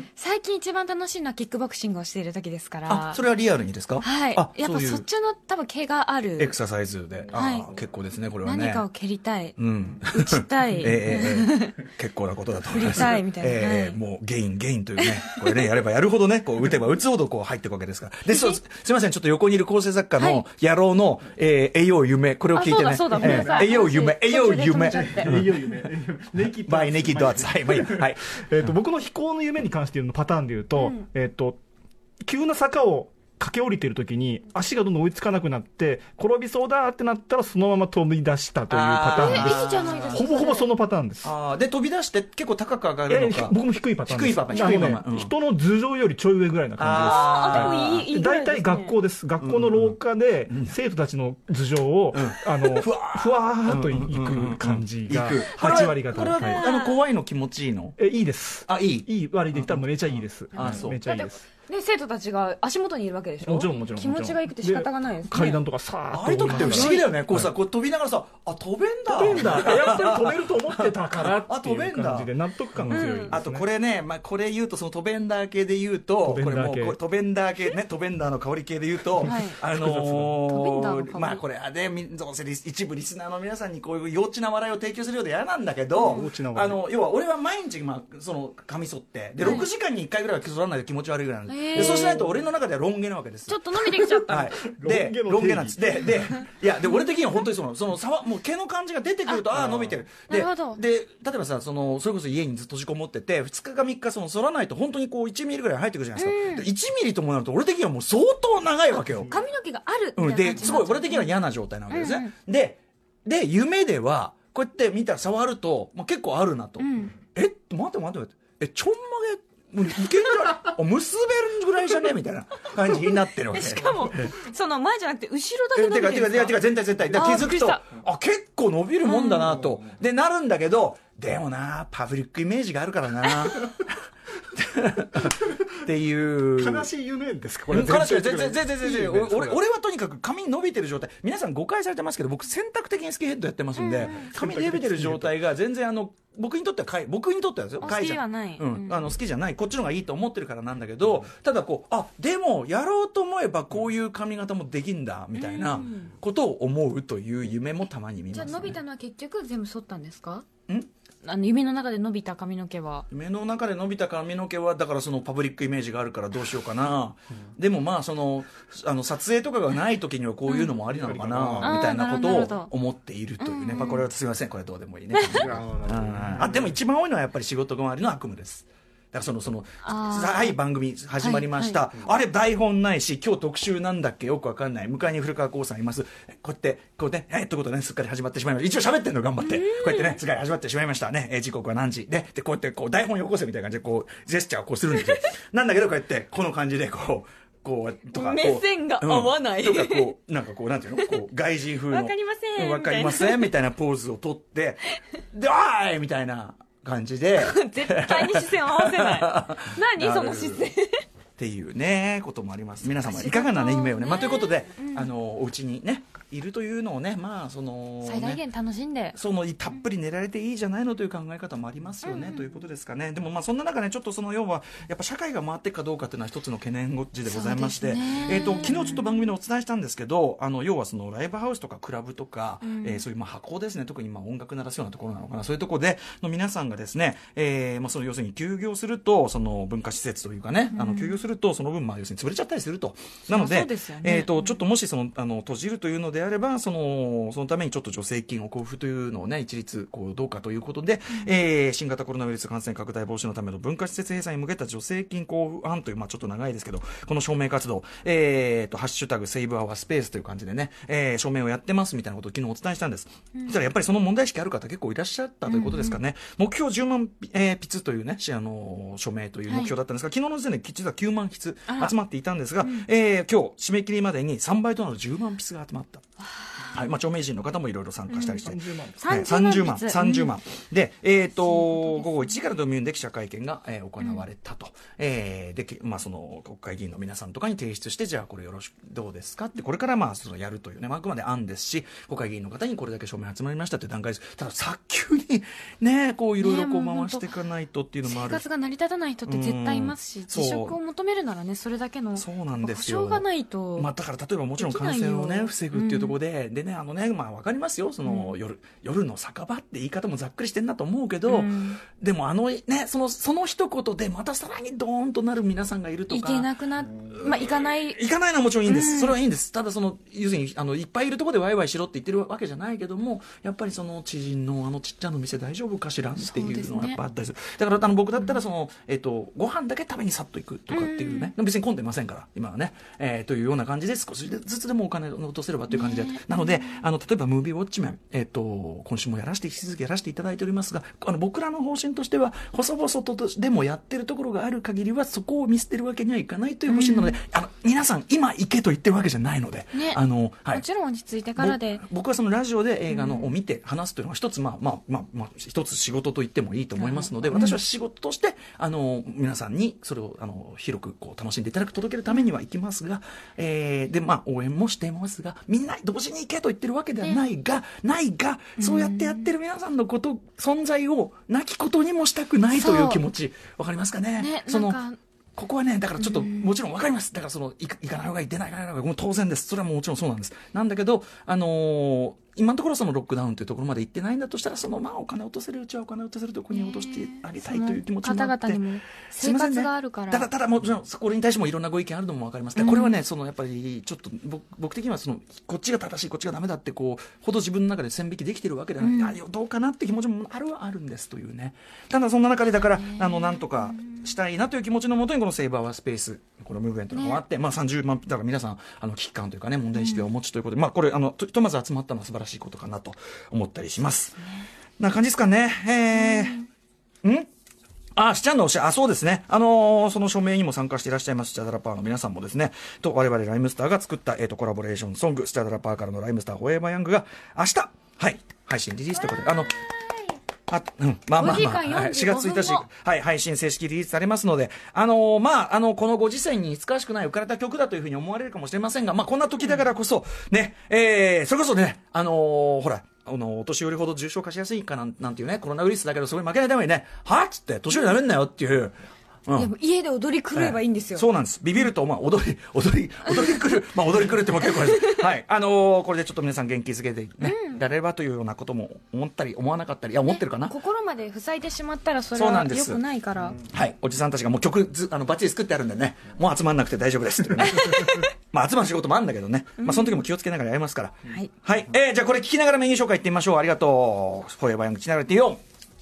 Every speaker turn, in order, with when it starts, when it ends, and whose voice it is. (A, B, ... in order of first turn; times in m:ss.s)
0:00.2-0:03.2 A
0:02.9-0:05.0 B
0:04.0-0:06.6 A
0:06.4-0:08.8 B
0:07.3-0:07.6 A
0:08.4-0:11.7 A
0:09.6-0:25.9 B
0:12.7-0:14.0 A
0:15.0-0:15.6 A
0:18.3-0:18.6 A
0:20.2-0:20.4 A
0:22.5-0:25.4 A
0:23.2-0:23.7 C
0:25.0-0:31.6 C
0:26.4-0:28.4 B
0:30.8-0:31.0 A
0:32.2-0:41.3 C
0:38.7-0:40.3 B
0:39.1-0:40.7 A
0:41.2-0:45.3 B
0:43.1-0:56.6 C
0:44.5-0:44.9 A
0:46.8-0:48.0 B
0:46.9-0:48.9 A
0:49.4-0:50.7 B
0:52.1-0:58.0 B
0:55.5-0:57.0 A
0:58.0-1:01.4 C
0:58.6-1:01.0 B
1:00.5-1:05.6 A
1:03.4-1:07.5 C
1:06.1-1:49.3 B
1:06.5-1:07.1 A
1:09.1-1:13.6 C
1:12.9-1:13.4 A
1:16.2-1:17.0 C
1:19.2-1:19.6 A
1:19.7-1:20.4 C
1:20.5-1:21.4 A
1:26.0-1:26.3 A
1:26.0-1:26.8 C
1:29.4-1:29.7 A
1:31.5-1:32.2 A
1:31.8-1:32.4 C
1:33.5-1:34.6 A
1:34.6-1:36.3 C
1:39.3-1:39.6 A
1:39.6-1:40.0 C
1:40.3-1:40.8 A
1:46.2-1:46.7 A
1:49.3-1:51.4 A
1:50.2-2:04.3 B
1:51.9-1:52.3 A
1:56.8-1:57.1 A
2:00.0-2:00.3 A
2:02.9-2:07.8 A
2:05.7-2:13.9 B
2:09.0-2:09.6 A
2:13.2-2:13.5 A
2:14.5-2:16.9 B
2:16.6-2:19.6 C
2:17.7-2:38.8 B
2:23.8-2:24.3 A
2:24.2-2:25.4 C
2:27.8-2:29.1 A
2:35.3-2:36.1 A
2:38.3-2:40.5 A
2:41.2-2:43.0 A
2:43.1-3:30.7 B
2:50.5-2:50.8 A
2:51.0-2:51.7 C
2:51.6-2:52.7 A
2:53.4-2:54.1 A
2:55.1-2:55.5 A
2:55.6-2:55.9 C
2:59.8-3:00.6 A
3:01.2-3:01.8 A
3:09.4-3:10.2 A
3:18.1-3:20.1 A
3:21.0-3:21.2 A
3:21.9-3:23.5 A
3:27.3-3:31.0 A
3:31.4-3:38.4 B
3:33.0-3:35.1 A
3:38.0-3:39.2 A
3:39.1-4:36.0 B
3:42.0-3:42.4 A
3:47.2-3:49.3 A
3:52.6-3:53.0 A
4:00.7-4:01.2 A
4:03.3-4:04.6 A
4:25.5-4:26.0 A
4:29.5-4:29.7 A
4:31.7-4:31.9 A
4:32.6-4:32.9 A
4:36.7-4:58.4 B
4:38.1-4:38.4 A
4:38.4-4:39.0 C
4:39.0-4:40.3 A
4:41.4-4:42.3 A
4:56.4-4:57.2 A
4:58.0-5:03.9 A
4:59.2-5:00.8 B
5:02.2-5:03.2 B
5:03.8-5:16.5 B
5:04.6-5:06.2 A
5:08.0-5:08.4 A
5:11.3-5:11.8 A
5:16.1-5:18.0 A
5:17.1-5:50.6 B
5:18.6-5:19.2 A
5:26.2-5:27.0 A
5:30.7-5:31.3 A
5:35.7-5:36.8 A
5:46.7-5:47.2 A
5:49.7-5:51.8 A
5:51.4-6:14.8 B
5:52.9-5:53.3 A
5:56.8-5:57.6 A
6:08.6-6:09.3 A
6:12.5-6:13.0 A
6:14.2-6:15.0 A
6:15.4-6:28.6 B
6:16.0-6:16.5 A
6:26.5-6:30.3 A
6:29.2-6:54.2 B
6:32.6-6:32.9 A
6:38.8-6:39.2 A
6:42.8-6:44.0 A
6:46.9-6:47.2 A
6:49.8-6:50.1 A
6:54.8-6:56.4 B
6:55.9-6:56.5 A
6:57.0-6:57.3 B
6:58.0-7:09.6 B
7:09.0-7:10.2 A
7:10.5-7:28.7 B
7:11.2-7:12.6 A
7:29.3-7:29.5 B
7:29.3-7:31.0 A
7:30.3-7:40.5 B
7:33.1-7:33.4 A
7:34.2-7:35.1 A
7:37.2-7:37.6 A
7:40.1-7:43.4 A
7:42.1-7:42.8 B
7:43.4-7:55.4 B
7:47.4-7:48.1 A
7:49.6-7:50.0 A